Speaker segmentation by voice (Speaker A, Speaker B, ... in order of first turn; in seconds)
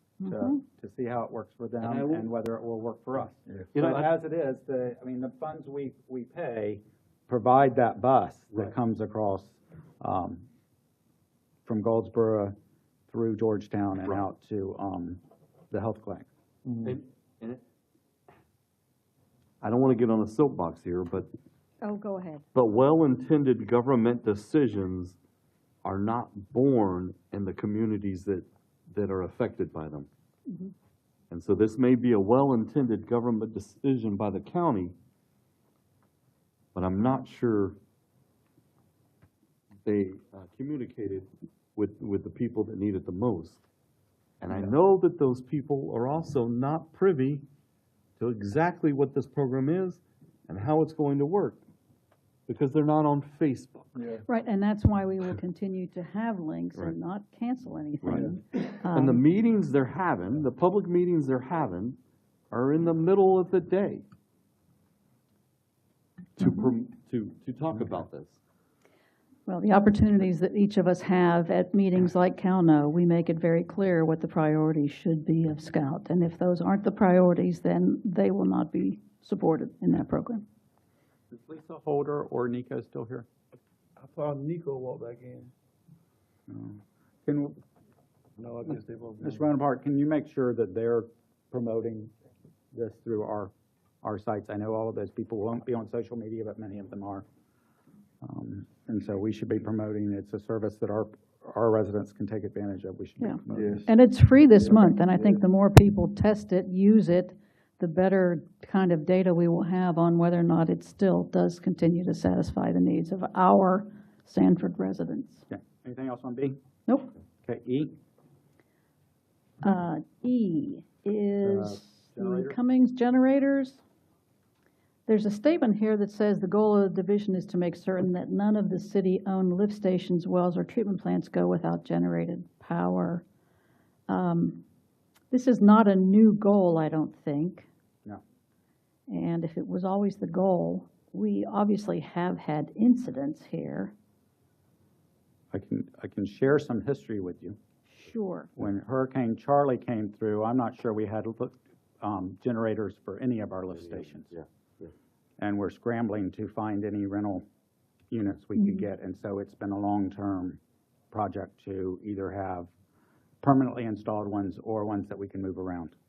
Speaker A: 0.2-0.6, 21.8-22.4, 30.5-30.7, 54.3-59.2, 69.5-80.4, 103.2-115.4, 119.6-123.8, 125.1-133.2, 134.1-134.6, 135.3-137.7, 139.1-143.9, 147.9-148.5, 158.6-158.9
Speaker B: 0.2-10.4, 11.6-12.5, 13.1-16.3, 81.3-83.3, 86.5-87.6, 89.2-92.1, 92.7-97.2, 98.2-103.8, 115.5-116.6, 117.4-118.0, 121.4-122.5, 145.5-147.6, 148.6-154.3, 155.4-157.4, 158.1-160.6, 161.1-162.7, 163.4-165.9
Speaker C: 1.8-2.3, 3.7-4.1, 16.8-17.6, 19.6-21.3, 22.5-25.2, 25.8-30.1, 31.3-34.9, 36.7-37.8, 39.8-43.6, 44.4-47.4, 48.2-51.6, 52.5-53.9, 58.0-58.3, 58.9-62.0, 62.5-64.0, 66.4-68.4, 153.9-154.9
Speaker D: 84.0-85.5, 88.4-89.4, 103.5-103.9, 104.8-105.3